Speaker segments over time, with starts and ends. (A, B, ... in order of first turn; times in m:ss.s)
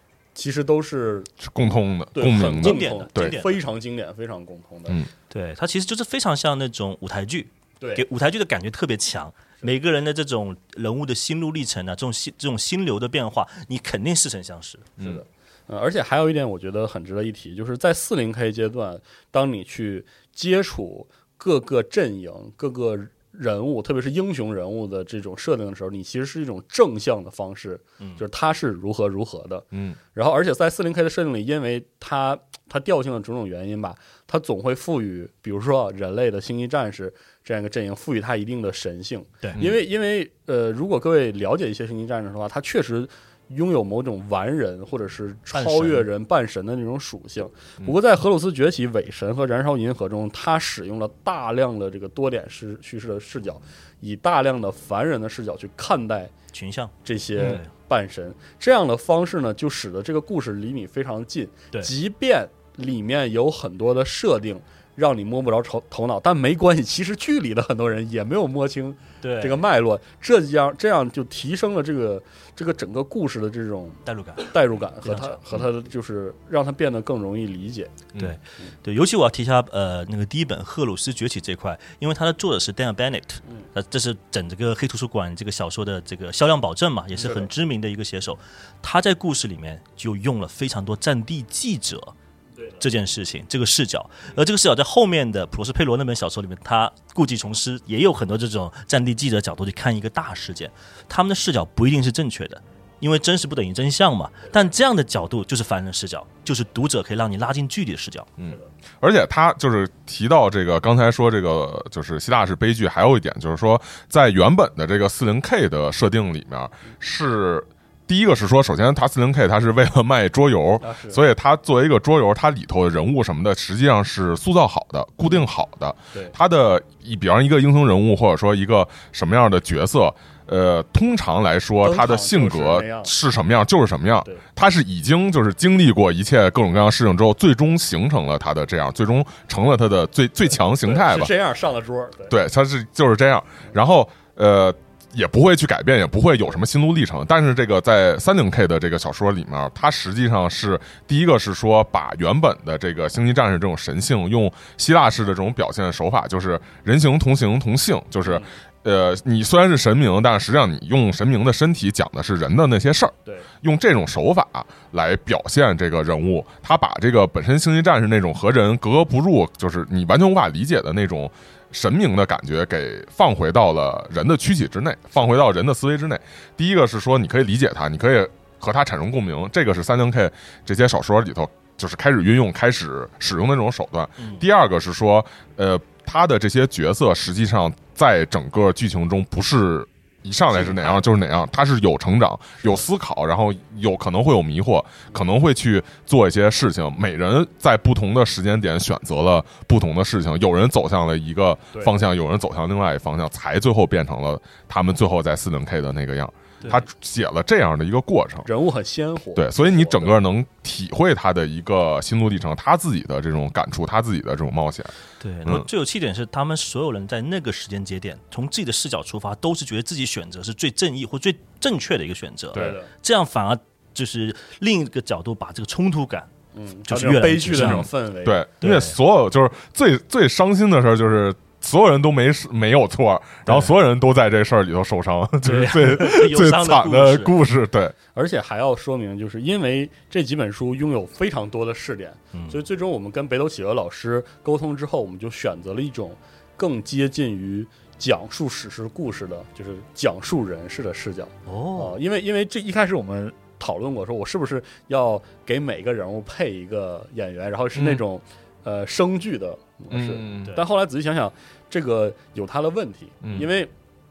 0:00.3-0:01.4 A
0:01.4-0:03.4 B
0:02.1-0:05.0 A
0:02.6-0:03.6 C
0:05.3-0:14.9 C
0:07.8-0:08.0 A
0:15.0-0:56.3 A
0:29.7-0:30.0 B
0:39.4-0:39.7 C
0:45.5-0:46.0 C
0:56.5-0:57.7 C
0:57.0-1:17.9 A
1:09.2-1:09.6 C
1:14.0-1:15.4 C
1:18.2-1:32.1 C
1:27.1-1:27.5 A
1:32.8-1:48.3 C
1:48.4-2:21.3 B
2:00.8-2:01.2 A
2:11.8-2:13.1 A
2:20.8-2:22.3 A
2:22.3-3:28.5 B
2:38.2-2:38.5 A
3:04.2-3:04.4 C
3:10.5-3:11.1 C
3:28.4-3:30.2 A
3:29.4-3:34.9 B
3:35.2-3:46.3 C
3:42.5-3:42.9 A
3:46.5-3:48.4 A
3:46.8-3:47.8 C
3:47.5-3:57.9 B
3:48.6-3:49.0 C
3:53.4-3:53.7 C
3:55.4-3:57.3 C
3:58.1-4:23.7 A
4:02.3-4:02.6 C
4:11.4-4:12.0 C
4:19.9-4:20.5 B
4:23.2-4:23.5 B